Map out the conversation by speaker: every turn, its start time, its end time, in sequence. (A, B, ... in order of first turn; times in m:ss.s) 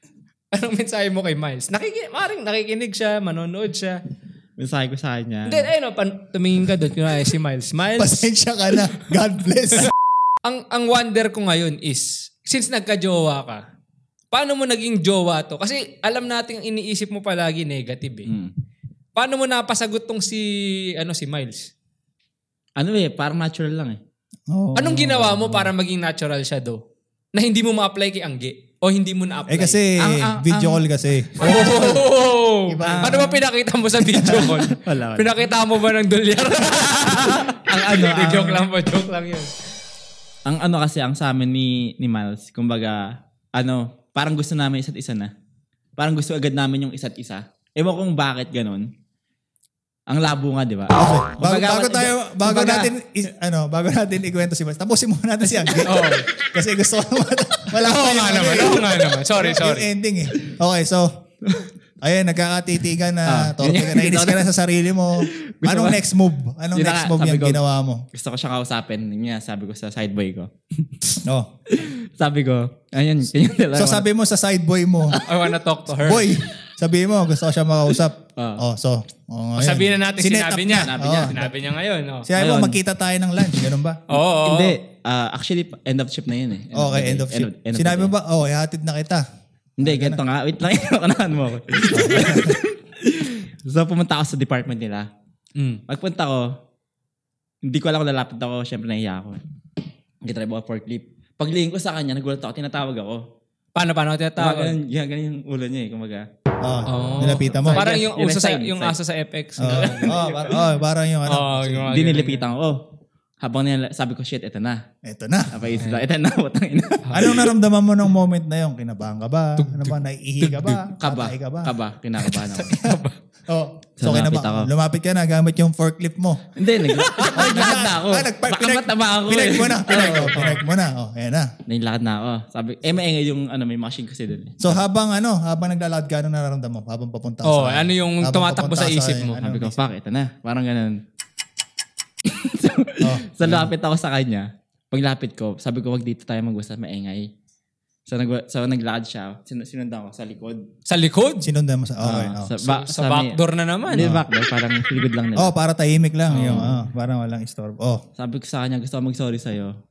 0:00.5-0:04.0 A
0:04.6-0:05.7 B
0:05.5-0:08.3 A
0:08.0-0:09.9 C
0:10.4-0:13.6 A
0:14.3-0:18.3 A
0:18.3-0:18.5 B
0:19.2-0:21.7 A
0:22.8-0:24.0 B
0:24.5-0:25.7 C
0:24.8-0:26.8 A
0:27.3-0:29.8 A
0:29.5-0:32.1 C
0:30.0-0:30.9 B
0:31.4-0:39.5 A
0:32.7-0:33.4 C
0:32.8-0:33.3 B
0:34.1-0:34.6 C
0:34.3-0:35.4 B
0:37.2-0:38.7 B
0:40.5-0:43.0 B
0:43.6-0:45.3 B
0:46.0-0:48.9 B
0:50.1-0:52.9 B
0:51.0-1:01.1 C
0:55.9-0:56.3 A
0:57.8-0:59.9 A
1:02.0-1:08.0 C
1:03.2-1:04.5 B
1:05.2-1:06.0 B
1:06.7-1:07.6 B
1:08.1-1:14.0 B
1:13.8-1:15.2 C
1:15.2-1:16.4 A
1:16.0-1:21.5 C
1:18.4-1:18.6 B
1:19.6-1:22.3 A
1:20.8-1:21.5 B
1:22.2-1:24.0 C
1:22.4-1:22.8 B
1:24.1-1:24.8 A
1:24.4-1:28.1 B
1:26.7-1:29.2 C
1:29.8-1:35.1 B
1:29.8-1:30.2 C
1:31.9-1:32.6 C
1:35.6-1:35.8 A
1:35.9-1:36.5 B
1:37.7-1:39.4 B
1:40.2-1:43.2 B
1:43.8-1:44.7 A
1:44.4-1:46.2 B
1:46.6-1:47.8 C
1:46.9-1:50.6 A
1:47.4-1:49.0 B
1:49.6-1:51.9 C
1:51.3-1:52.5 A
1:51.9-1:52.8 B
1:53.4-1:54.8 B
1:55.0-1:55.8 C
1:55.5-1:57.5 B
1:57.1-2:01.7 C
1:59.6-2:00.8 A
2:00.8-2:02.8 B
2:02.2-2:03.2 A
2:03.5-2:06.4 C
2:04.0-2:04.7 B
2:06.6-2:10.6 B
2:07.0-2:07.6 A
2:07.3-2:11.5 C
2:09.9-2:10.6 A
2:11.7-2:14.8 B
2:14.6-2:19.8 C
2:17.4-2:19.5 A
2:19.4-2:21.0 B
2:22.2-2:27.3 B
2:23.0-2:23.7 C
2:28.1-2:30.6 B
2:30.9-2:31.4 A
2:31.4-2:32.5 C
2:32.0-2:35.5 B
2:32.6-2:34.1 A
2:34.0-2:34.2 C
2:35.4-2:38.0 C
2:36.3-2:36.8 B
2:36.3-2:36.8 A
2:38.2-2:39.7 B